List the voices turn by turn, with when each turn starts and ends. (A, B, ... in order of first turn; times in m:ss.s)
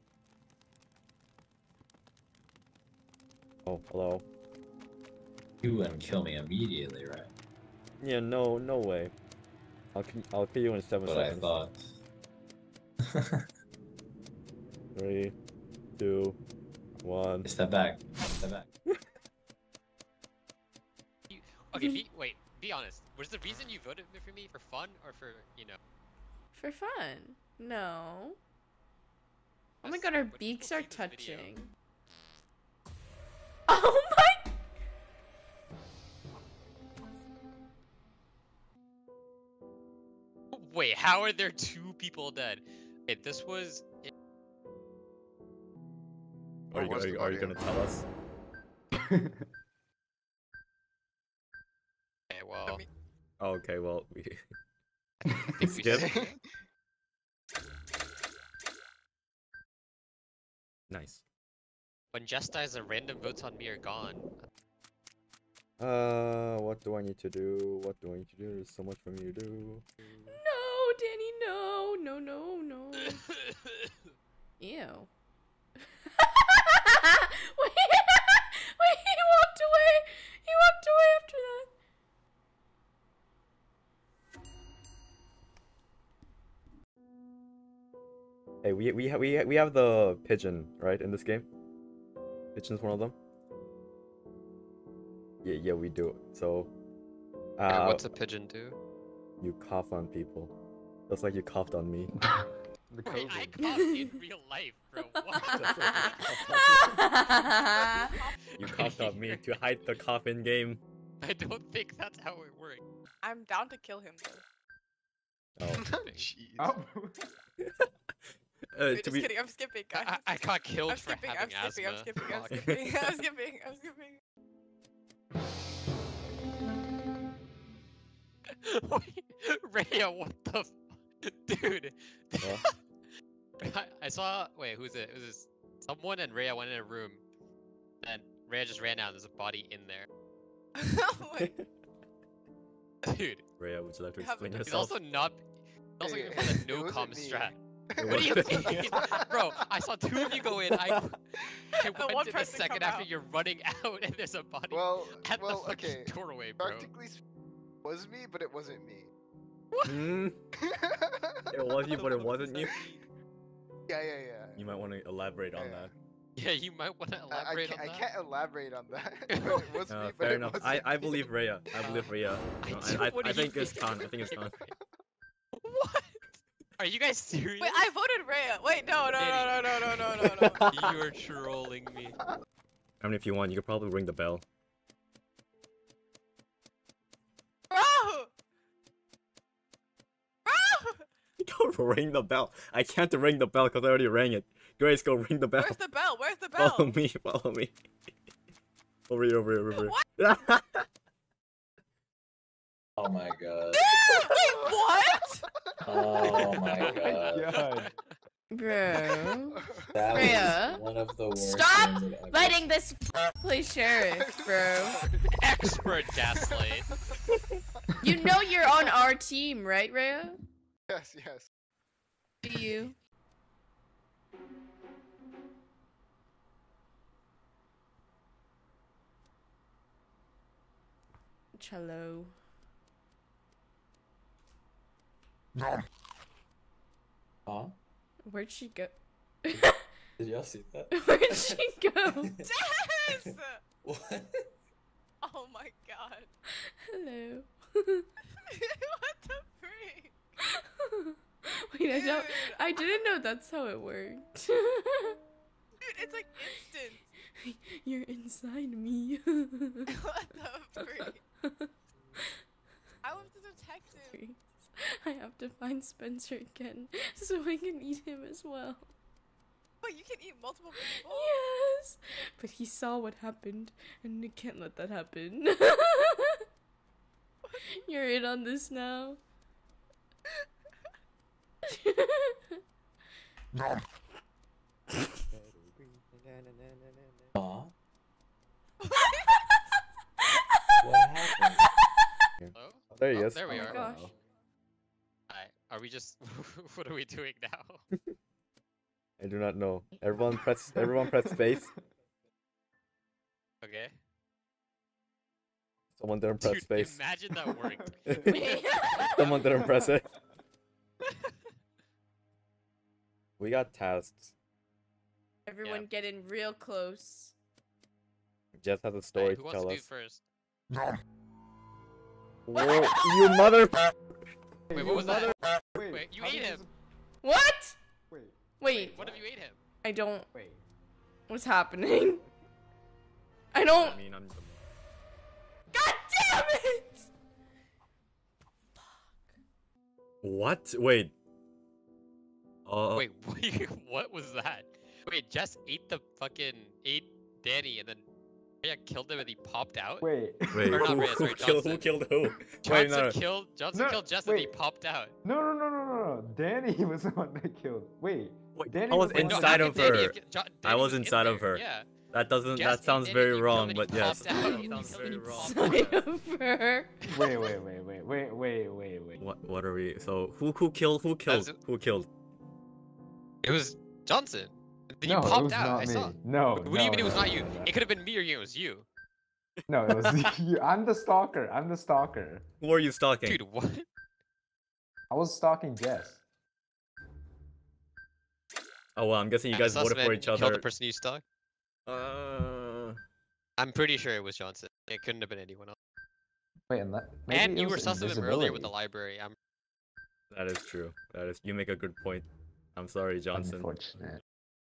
0:03.7-0:04.2 A
0:05.6-0:07.3 B
0:08.0-0:09.1 A
0:10.0-0:11.6 A
0:11.0-0:11.8 B
0:13.1-0:13.4 B
0:15.0-0:15.3 A
0:16.0-0:16.4 A
0:17.0-0:17.5 A
0:17.4-0:18.7 B
0:21.3-0:25.8 C
0:21.7-0:22.0 D
0:26.6-0:28.4 D
0:29.8-0:31.5 C
0:29.8-0:31.7 D
0:33.7-0:34.4 D
0:40.5-0:44.1 C
0:46.7-0:47.6 E
0:46.7-0:48.0 A
0:48.9-0:49.5 F
0:52.3-0:52.8 C
0:53.4-0:54.4 A
0:55.2-0:56.3 C
0:55.3-0:55.6 F
0:55.6-0:56.1 A
0:55.8-0:56.4 E
1:00.9-1:01.2 A
1:02.1-1:04.5 C
1:05.8-1:09.8 A
1:10.3-1:13.2 D
1:13.2-1:13.9 C
1:14.6-1:15.1 D
1:16.2-1:21.7 D
1:28.6-1:31.5 A
1:32.6-1:33.2 A
1:35.4-1:36.7 A
1:37.6-1:38.0 A
1:37.7-1:38.8 C
1:39.4-1:40.5 A
1:41.1-1:42.1 A
1:42.9-1:43.9 F
1:43.0-1:46.3 C
1:43.6-1:44.1 D
1:45.4-1:47.0 A
1:45.4-1:48.2 D
1:48.0-1:48.3 G
1:48.6-1:50.8 A
1:48.6-1:49.4 C
1:51.2-1:52.8 C
1:53.2-1:54.4 G
1:55.6-1:55.9 A
1:55.7-1:56.7 E
1:55.8-1:56.3 C
1:56.6-1:57.3 F
1:57.6-1:57.9 A
1:58.7-1:59.3 A
1:58.9-2:04.2 G
1:59.9-2:02.8 C
2:02.5-2:02.8 A
2:08.5-2:12.8 C
2:13.6-2:17.2 C
2:18.0-2:20.1 C
2:20.8-2:21.6 G
2:21.4-2:21.6 A
2:23.0-2:23.4 C
2:23.6-2:25.0 A
2:24.2-2:24.9 G
2:24.7-2:25.4 C
2:26.0-2:36.9 C
2:26.0-2:29.6 E
2:28.0-2:29.1 A
2:31.8-2:33.1 G
2:34.7-2:37.2 E
2:37.8-2:39.1 E
2:39.8-2:40.4 A
2:40.6-2:42.0 E
2:41.5-2:42.8 A
2:42.0-2:42.5 C
2:42.0-2:42.5 G
2:43.9-2:44.6 E
2:44.6-2:45.9 A
2:45.5-2:45.9 E
2:46.4-2:48.1 C
2:47.3-2:51.3 E
2:49.3-2:49.8 C
2:49.9-2:54.6 A
2:51.8-2:54.7 C
2:55.6-2:56.2 C
2:56.8-2:57.9 C
2:57.6-3:00.7 G
2:59.1-3:00.0 C
3:00.2-3:01.0 A
3:00.7-3:02.2 C
3:03.0-3:04.4 A
3:07.7-3:08.3 G
3:10.4-3:11.0 G
3:11.4-3:15.8 A
3:15.6-3:16.9 G
3:16.6-3:17.8 A
3:19.1-3:20.9 A
3:19.7-3:20.0 G
3:23.0-3:24.3 B
3:23.8-3:25.5 G
3:25.8-3:27.5 B
3:26.1-3:28.0 C
3:26.9-3:27.9 F
3:28.5-3:29.6 D
3:29.5-3:30.3 E
3:29.9-3:32.7 B
3:30.1-3:30.8 D
3:31.4-3:35.0 D
3:34.2-3:35.7 E
3:35.3-3:36.9 C
3:38.0-3:40.4 D
3:40.9-3:41.5 E
3:42.4-3:43.0 D
3:51.5-3:52.3 D
3:57.5-3:57.8 B
3:58.2-3:59.8 D
3:59.5-4:01.7 B
4:00.9-4:02.4 D
4:02.4-4:03.6 G
4:03.8-4:04.5 B
4:05.2-4:06.3 G
4:06.9-4:08.1 D
4:08.5-4:10.2 G
4:10.5-4:15.2 D
4:11.9-4:13.0 G
4:15.8-4:17.1 G
4:17.4-4:19.9 D
4:19.9-4:21.2 G
4:21.0-4:21.7 D
4:23.0-4:24.2 G
4:24.0-4:28.9 D
4:29.8-4:31.4 G
4:30.8-4:36.4 D
4:37.8-4:39.2 D
4:41.7-4:42.4 D
4:45.3-4:47.3 A
4:47.4-4:47.7 B
4:48.8-4:49.4 G
4:50.8-4:51.7 B
4:52.4-4:53.7 A
4:52.5-4:54.0 C
4:53.5-4:54.1 F
4:53.5-4:54.1 D
4:55.3-4:57.8 C
4:59.2-5:01.7 A
5:00.8-5:01.1 F
5:03.6-5:03.9 C
5:06.0-5:07.0 A
5:06.4-5:08.0 C
5:07.5-5:08.3 F
5:08.1-5:10.1 A
5:08.3-5:09.4 D
5:13.4-5:14.3 A
5:15.5-5:17.3 D
5:18.6-5:19.8 A
5:19.2-5:20.2 C
5:22.5-5:23.9 A
5:22.6-5:23.5 D
5:24.7-5:26.7 F
5:24.7-5:25.4 A
5:24.8-5:26.6 C
5:27.2-5:27.8 D
5:28.1-5:29.2 F
5:28.6-5:29.0 D
5:28.9-5:29.6 C
5:29.8-5:30.3 D
5:30.3-5:30.6 F
5:31.3-5:32.2 D
5:33.5-5:34.0 D
5:33.7-5:34.6 A
5:35.7-5:37.1 D
5:40.2-5:41.1 A
5:42.7-5:43.1 A
5:43.0-5:48.0 C
5:48.6-5:50.1 C
5:50.0-5:51.1 F
5:50.5-5:53.2 A
5:50.7-5:55.2 C
5:53.7-5:54.5 F
5:55.2-6:00.1 F
5:58.6-6:06.0 A
5:59.1-6:01.9 C
6:02.5-6:06.0 C
6:04.0-6:07.0 D
6:07.1-6:09.2 F
6:09.2-6:12.1 A
6:11.3-6:11.6 C
6:13.4-6:18.9 C
6:15.0-6:17.7 F
6:19.7-6:22.5 F
6:19.9-6:20.2 A
6:22.6-6:23.4 A
6:23.2-6:23.9 C
6:25.1-6:26.2 F
6:29.0-6:30.6 A
6:29.5-6:31.2 C
6:31.9-6:33.0 A
6:33.6-6:35.8 C
6:36.7-6:38.7 F
6:37.3-6:39.4 C
6:40.3-6:43.7 A
6:43.3-6:44.2 F